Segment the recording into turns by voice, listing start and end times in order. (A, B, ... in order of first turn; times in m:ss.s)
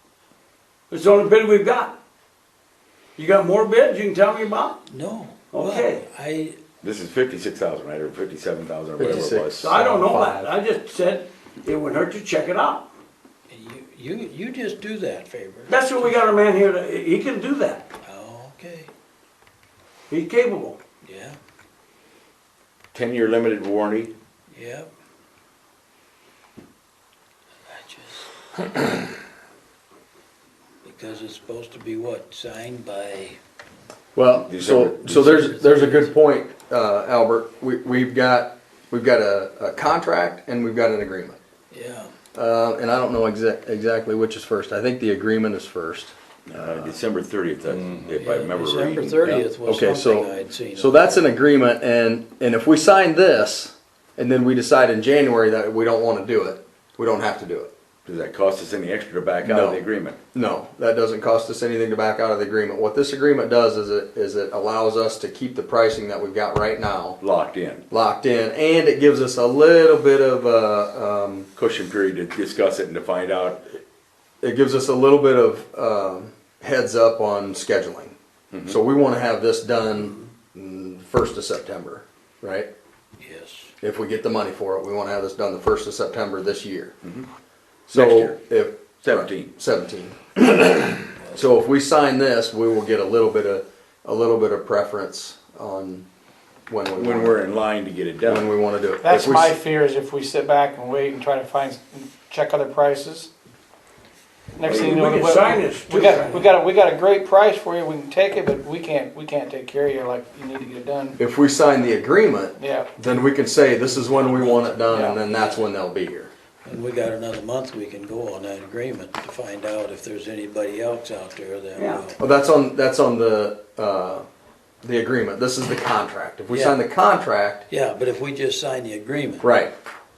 0:00.9-0:02.0 A
0:03.2-0:04.8 A
0:04.9-0:06.6 B
0:05.5-0:06.1 A
0:06.8-0:09.7 C
0:09.0-0:10.5 D
0:09.6-0:12.9 A
0:13.5-0:15.8 B
0:15.7-0:17.9 A
0:18.0-0:18.9 B
0:20.1-0:20.8 A
0:21.0-0:21.4 B
0:22.9-0:24.1 C
0:24.5-0:24.9 B
0:27.7-0:28.3 B
0:30.8-0:33.4 B
0:34.2-0:41.4 D
0:34.5-0:35.5 C
0:35.3-0:36.1 B
0:41.7-0:42.1 B
0:42.3-0:47.0 D
0:46.5-0:49.5 C
0:48.1-0:51.3 B
0:49.6-0:57.7 D
0:58.0-1:00.2 C
0:59.4-1:07.2 D
1:07.2-1:07.8 C
1:07.9-1:11.5 D
1:11.6-1:13.8 C
1:14.4-1:22.7 D
1:18.5-1:18.8 C
1:23.2-1:23.7 B
1:23.8-1:27.0 D
1:27.9-1:36.1 D
1:27.9-1:28.4 C
1:29.0-1:29.5 C
1:36.7-1:37.4 D
1:37.0-1:38.5 C
1:38.2-1:39.6 D
1:39.0-1:43.3 E
1:44.6-1:51.2 E
1:44.7-1:44.9 D
1:44.7-1:46.6 A
1:51.2-1:56.3 D
1:52.6-1:52.9 E
1:54.3-1:54.8 B
1:54.9-1:55.2 E
1:56.6-2:02.2 B
2:01.8-2:02.0 A
2:02.2-2:04.3 D
2:04.8-2:07.7 D
2:06.5-2:06.8 B
2:07.7-2:09.5 B
2:09.4-2:09.7 D